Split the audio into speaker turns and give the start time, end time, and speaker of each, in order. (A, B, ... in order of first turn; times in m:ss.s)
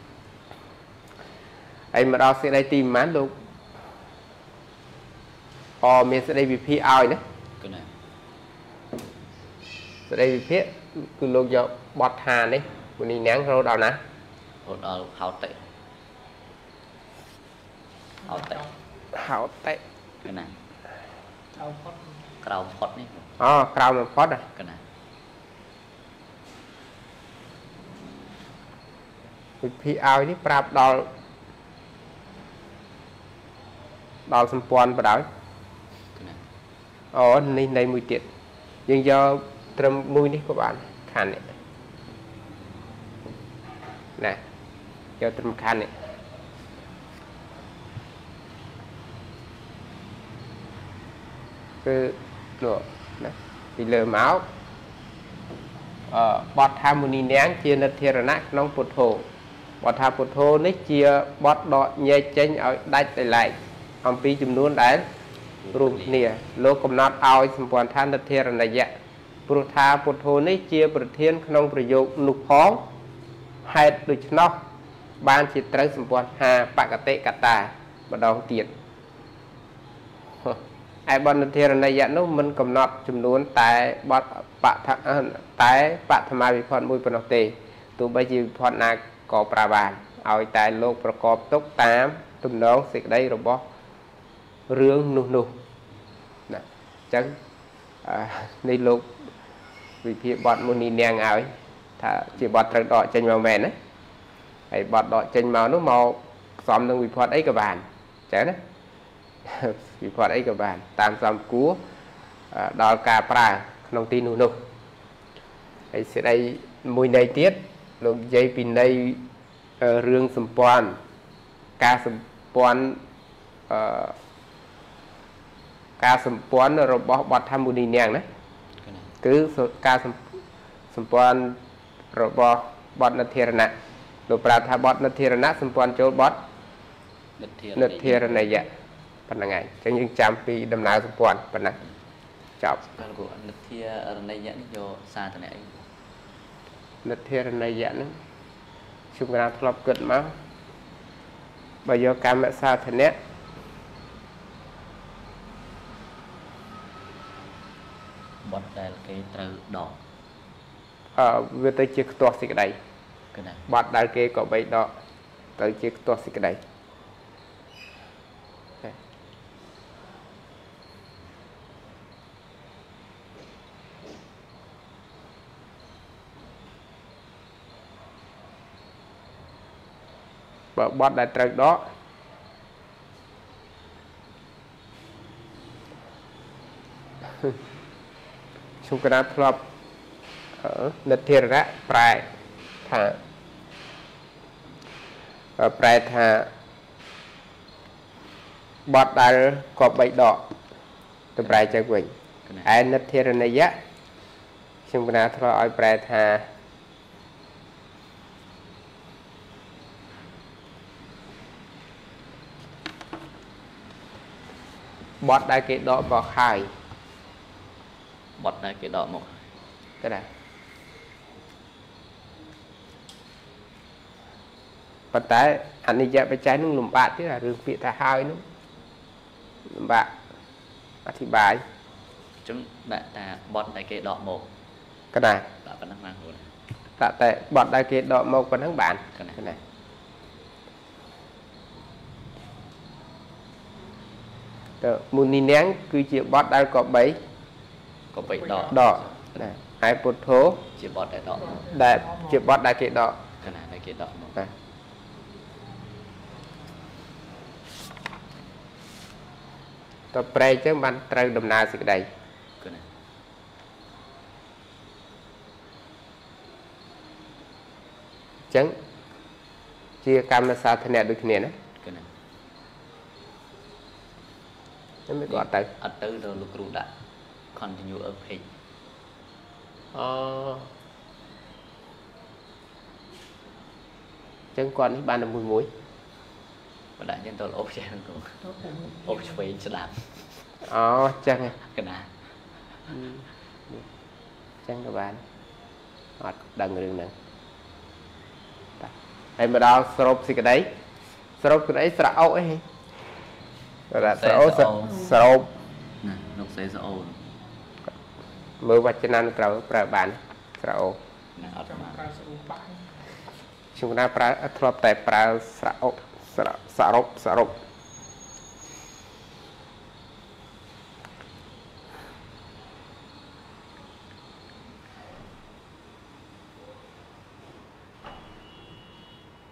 0:01.9-0:03.3 A
0:05.8-0:07.2 A
0:07.6-0:07.9 B
0:10.1-0:14.0 A
0:14.6-0:15.6 B
0:18.2-0:18.7 C
0:18.2-0:18.6 B
0:19.1-0:19.8 A
0:20.2-0:20.5 B
0:21.5-0:22.2 C
0:22.4-0:23.3 B
0:23.4-0:24.4 A
0:24.5-0:24.8 B
0:29.6-0:31.1 A
0:34.3-0:35.3 A
0:37.1-0:38.3 A
0:38.9-0:41.5 A
0:45.2-0:45.9 A
0:51.8-0:54.5 A
0:56.1-0:59.3 A
0:59.8-1:05.1 A
1:05.6-1:06.2 B
1:05.7-1:08.9 A
1:09.5-1:12.9 A
1:13.6-1:14.7 A
1:15.2-1:18.7 A
1:20.4-1:33.6 A
1:34.7-1:35.6 A
1:36.5-1:37.4 A
1:38.0-1:39.2 A
1:40.0-1:43.8 A
1:44.7-1:48.6 A
1:49.4-1:51.8 A
1:52.5-1:54.6 A
1:55.9-1:59.3 A
1:59.8-2:01.0 A
2:01.8-2:03.0 A
2:03.7-2:04.2 A
2:06.0-2:08.2 A
2:08.8-2:09.1 B
2:09.2-2:10.3 A
2:10.9-2:11.6 A
2:12.1-2:13.7 A
2:14.3-2:16.4 A
2:17.4-2:18.6 B
2:17.8-2:18.7 A
2:19.3-2:21.8 A
2:22.8-2:25.9 B
2:27.0-2:28.2 A
2:29.1-2:30.4 A
2:31.8-2:33.2 A
2:38.4-2:40.0 B
2:41.1-2:42.8 A
2:43.3-2:43.7 B
2:43.7-2:44.9 A
2:45.6-2:46.6 A
3:00.8-3:01.9 A
3:08.8-3:09.6 A
3:10.6-3:12.3 A
3:12.8-3:13.2 A
3:15.6-3:16.5 A
3:18.9-3:20.5 A
3:21.4-3:22.1 A
3:22.4-3:22.8 B
3:22.6-3:23.8 A
3:24.9-3:26.5 A
3:35.2-3:36.7 A
3:38.4-3:39.4 B
3:40.0-3:40.3 A
3:45.1-3:48.4 A
3:49.6-3:50.2 A
3:51.0-3:51.6 A
3:52.4-3:54.5 B
3:55.1-3:55.5 A
3:55.6-3:56.5 B
3:57.0-3:59.6 A
3:59.1-3:59.6 B
4:04.8-4:07.2 A
4:08.1-4:09.5 B
4:08.4-4:08.9 C
4:08.7-4:10.7 A
4:10.8-4:11.6 B
4:11.4-4:12.4 C
4:11.7-4:13.2 A
4:13.4-4:14.5 B
4:20.1-4:22.1 A
4:22.6-4:22.9 B
4:28.5-4:28.8 A
4:30.0-4:31.6 A
4:31.8-4:32.1 B
4:35.1-4:35.7 A
4:35.3-4:36.9 B
4:37.5-4:38.5 B
4:39.9-4:40.7 A
4:44.5-4:45.7 A
4:47.0-4:50.3 B
4:48.4-4:49.4 C
4:50.6-4:51.6 A
4:51.6-4:52.1 B
4:52.9-4:53.8 A
4:54.6-4:55.2 A
4:56.2-4:57.1 A
4:58.8-5:00.7 A
5:01.4-5:02.6 A
5:03.9-5:05.5 A
5:04.0-5:05.0 B
5:04.8-5:05.2 C
5:06.0-5:07.2 B
5:08.6-5:11.0 A
5:11.4-5:12.0 B
5:11.5-5:12.9 C
5:13.7-5:17.6 A